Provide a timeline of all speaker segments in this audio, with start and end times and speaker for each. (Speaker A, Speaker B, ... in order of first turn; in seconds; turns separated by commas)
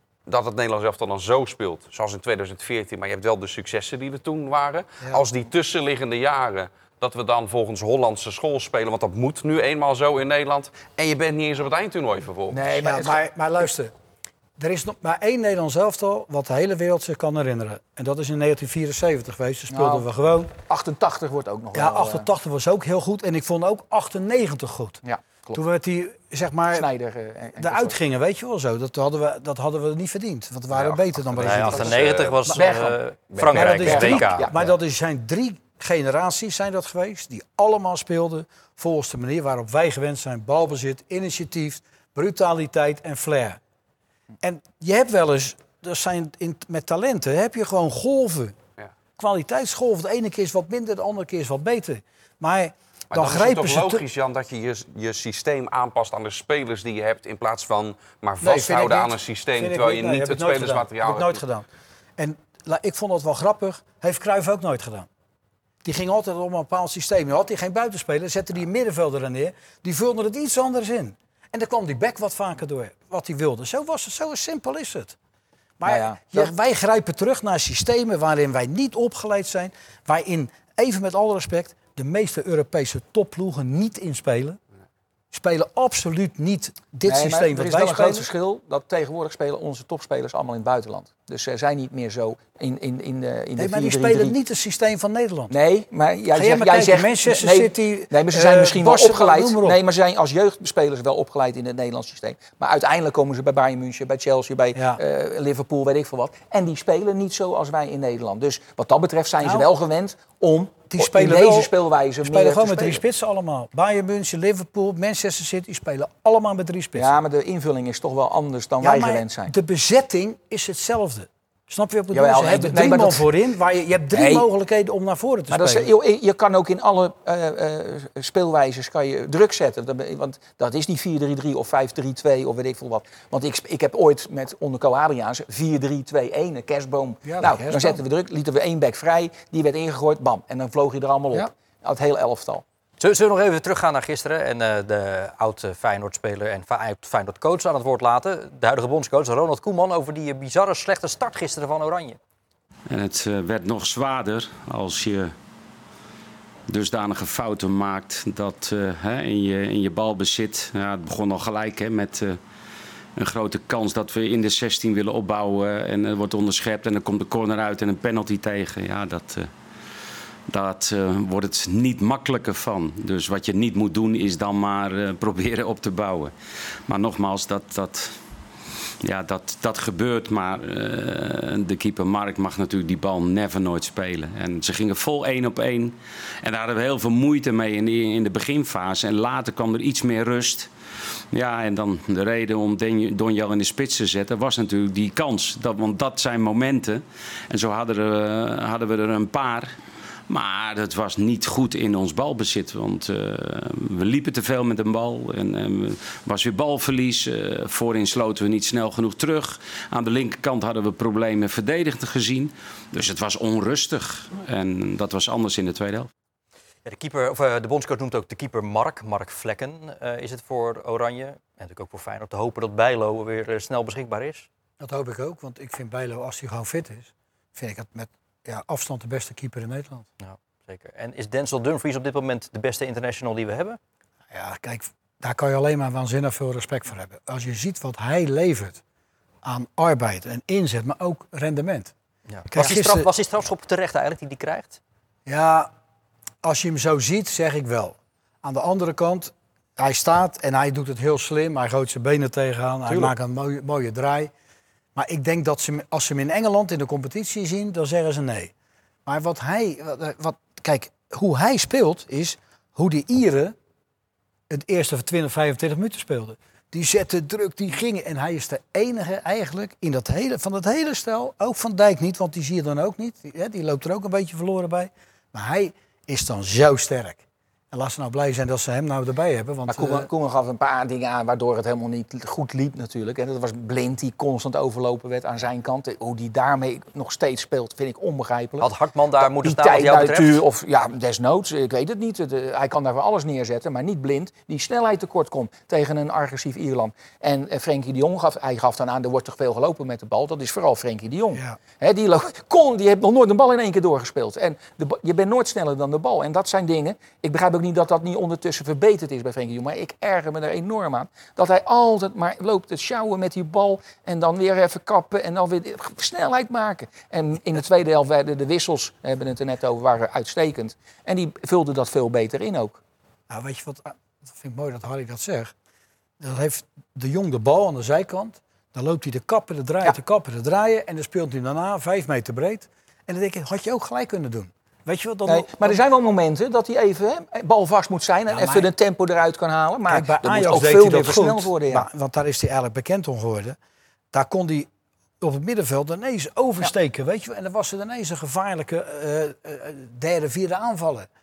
Speaker A: 0.3-12.6, Speaker B: 12.5-13.2, Speaker C: 12.8-13.9, Speaker C: 14.6-20.5, Speaker B: 19.7-20.1, Speaker B: 20.7-22.3, Speaker C: 21.7-25.0, Speaker B: 25.0-25.6, Speaker C: 25.5-26.9, Speaker B: 26.7-27.9, Speaker C: 27.6-32.0, Speaker A: 30.7-32.6, Speaker D: 31.4-34.5, Speaker B: 32.5-33.0, Speaker A: 33.3-33.7, Speaker C: 33.5-43.6, Speaker B: 33.5-34.7, Speaker C: 44.4-48.5, Speaker C: 49.2-54.0, Speaker A: 53.1-61.4, Speaker C: 58.4-65.1, Speaker C: 65.8-75.2, Speaker C: 75.8-84.6, Speaker B: 75.8-76.5, Speaker C: 85.3-88.3, Speaker B: 87.0-94.3, Speaker C: 93.5-95.5, Speaker B: 95.5-113.0, Speaker C: 96.3-99.8, Speaker C: 104.7-105.0, Speaker C: 109.4-109.7, Speaker C: 110.9-117.1, Speaker B: 117.0-119.5, Speaker C: 118.8-125.9, Speaker B: 122.1-123.3, Speaker B: 124.1-124.5, Speaker B: 125.5-142.6, Speaker C: 137.2-138.0, Speaker D: 143.0-152.2, Speaker E: 152.9-155.3, Speaker E: 156.7-162.4, Speaker E: 163.2-169.5, Speaker E: 170.5-176.3, Speaker E: 176.8-178.2, Speaker E: 179.0-190.7, Speaker E: 191.3-199.7, Speaker E: 200.3-216.1, Speaker D: 216.8-224.5, Speaker C: 224.8-230.1, Speaker D: 230.2-233.8, Speaker C: 234.3-238.8, Speaker C: 239.4-241.9, Speaker D: 242.3-244.8, Speaker C: 242.5-243.1, Speaker C: 245.2-245.7, Speaker C: 246.4-254.3, Speaker C: 254.9-258.5, Speaker C: 259.1-263.6, Speaker C: 264.5-280.1, Speaker B: 279.7-322.8, Speaker D: 288.6-290.4, Speaker C: 301.3-301.6, Speaker C: 323.3-325.5, Speaker C: 326.2-335.8, Speaker B: 335.3-341.9, Speaker C: 338.3-338.7, Speaker C: 339.9-343.6, Speaker C: 344.1-351.1